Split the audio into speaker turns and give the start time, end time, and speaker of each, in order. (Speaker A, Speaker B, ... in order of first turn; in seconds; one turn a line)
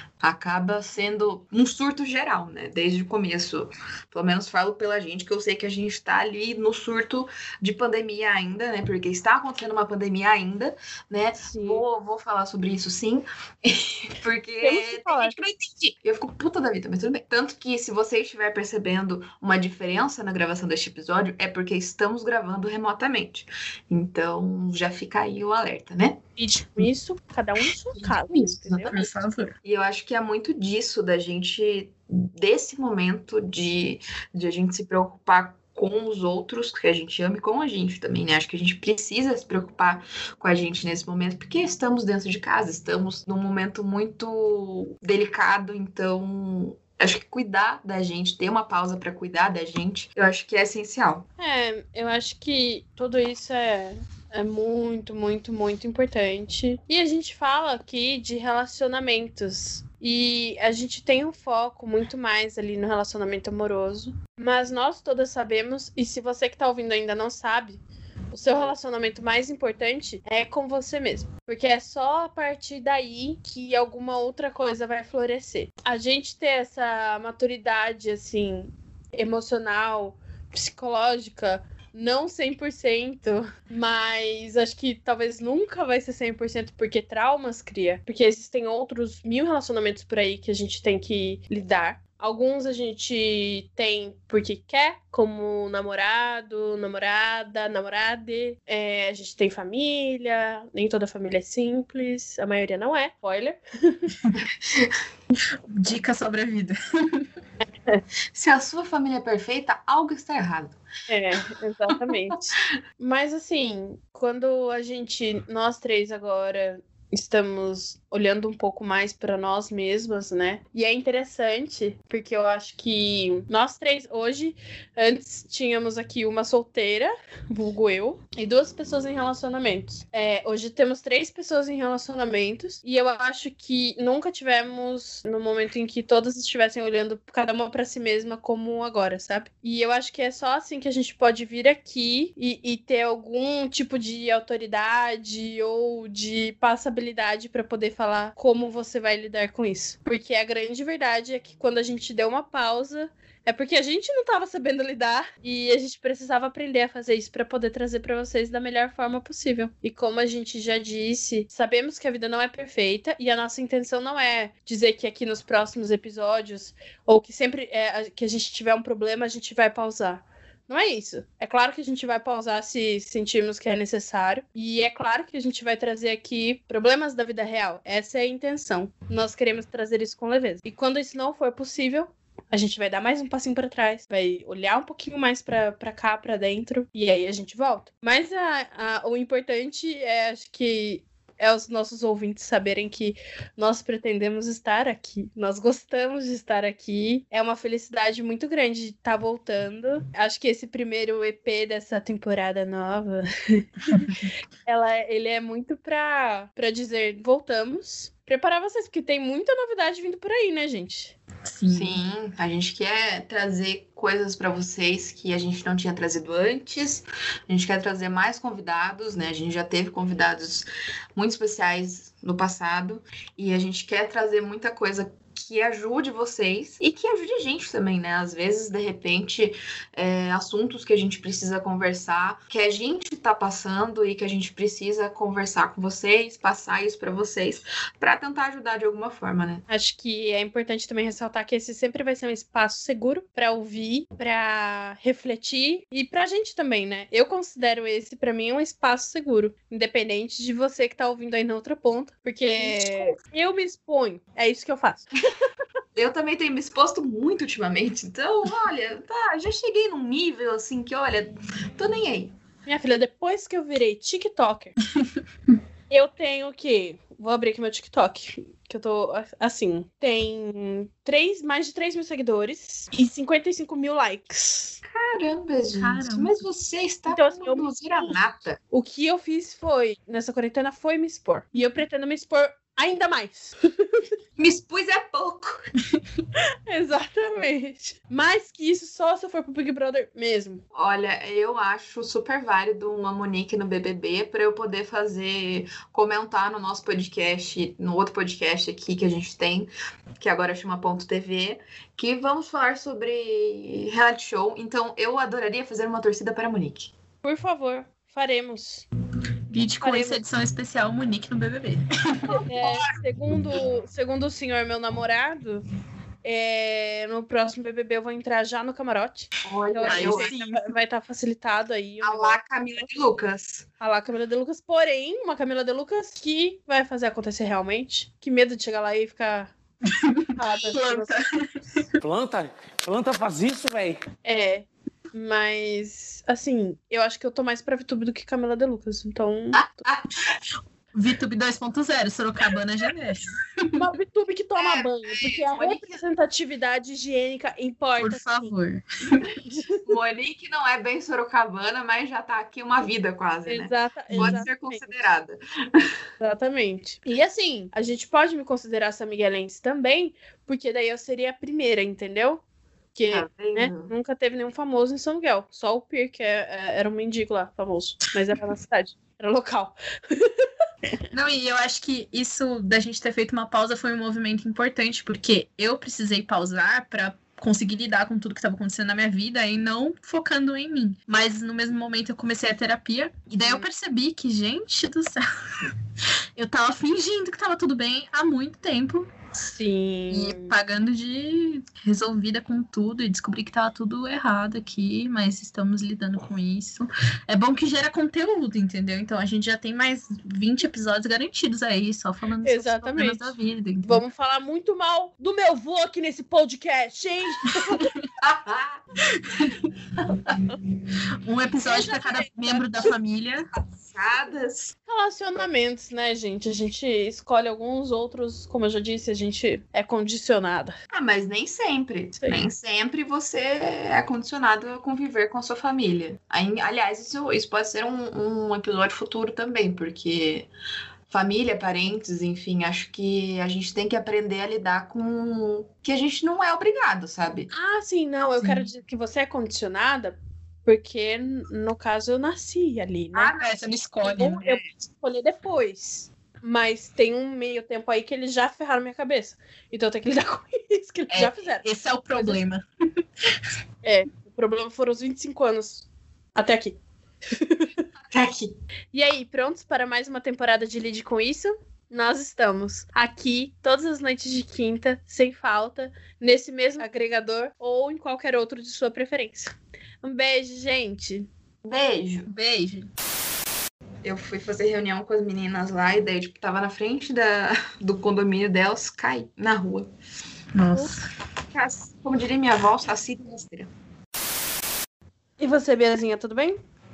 Speaker A: 0.2-26.2
Speaker B: 11.4-11.8
Speaker B: 14.6-15.3
Speaker B: 26.4-28.9
Speaker A: 27.9-29.1
Speaker C: 28.9-29.5
Speaker A: 29.6-51.2
Speaker B: 51.4-104.1
Speaker C: 105.7-107.2
Speaker A: 108.3-110.8
Speaker B: 111.1-204.1
Speaker C: 203.9-204.3
Speaker B: 204.7-211.2
Speaker C: 211.4-212.0
Speaker A: 211.7-239.6
Speaker B: 239.7-255.2
Speaker A: 252.6-253.2
Speaker A: 255.9-262.3
Speaker B: 262.6-264.7
Speaker B: 265.9-274.8
Speaker A: 274.9-278.6
Speaker C: 275.7-276.3
Speaker B: 277.1-278.1
Speaker B: 278.7-284.0
Speaker A: 284.4-285.7
Speaker B: 286.7-290.6
Speaker A: 290.7-306.9
Speaker B: 307.2-308.8
Speaker C: 309.5-312.3
Speaker B: 309.8-310.2
Speaker B: 312.3-315.6
Speaker B: 316.2-322.9
Speaker A: 319.4-320.3
Speaker C: 319.9-320.6
Speaker A: 322.0-323.6
Speaker B: 323.8-329.5
Speaker C: 329.8-331.9
Speaker B: 330.4-331.1
Speaker D: 332.0-334.0
Speaker B: 334.2-339.8
Speaker C: 340.9-343.3
Speaker B: 343.8-348.5
Speaker A: 344.6-346.0
Speaker C: 348.0-349.3
Speaker B: 349.4-349.8
Speaker A: 349.9-355.4
Speaker B: 353.4-355.0
Speaker C: 354.1-354.4
Speaker B: 356.2-362.4
Speaker B: 362.9-370.4
Speaker A: 363.1-363.9
Speaker C: 371.1-385.2
Speaker C: 386.4-389.1
Speaker B: 389.4-390.5
Speaker C: 390.1-404.0
Speaker B: 402.4-407.9
Speaker A: 408.2-408.8
Speaker C: 411.2-413.4
Speaker B: 411.6-412.7
Speaker A: 413.7-414.7
Speaker B: 414.9-420.7
Speaker A: 420.9-430.5
Speaker A: 431.1-437.5
Speaker B: 437.5-443.3
Speaker C: 438.3-438.7
Speaker A: 443.1-443.8
Speaker C: 443.3-444.6
Speaker B: 444.0-452.4
Speaker C: 451.1-452.6
Speaker B: 453.8-456.8
Speaker B: 457.3-457.7
Speaker A: 458.1-458.5
Speaker B: 458.9-471.3
Speaker A: 471.6-472.3
Speaker C: 472.3-472.9
Speaker A: 474.0-479.9
Speaker C: 480.5-481.0
Speaker A: 481.5-483.7
Speaker B: 485.4-486.6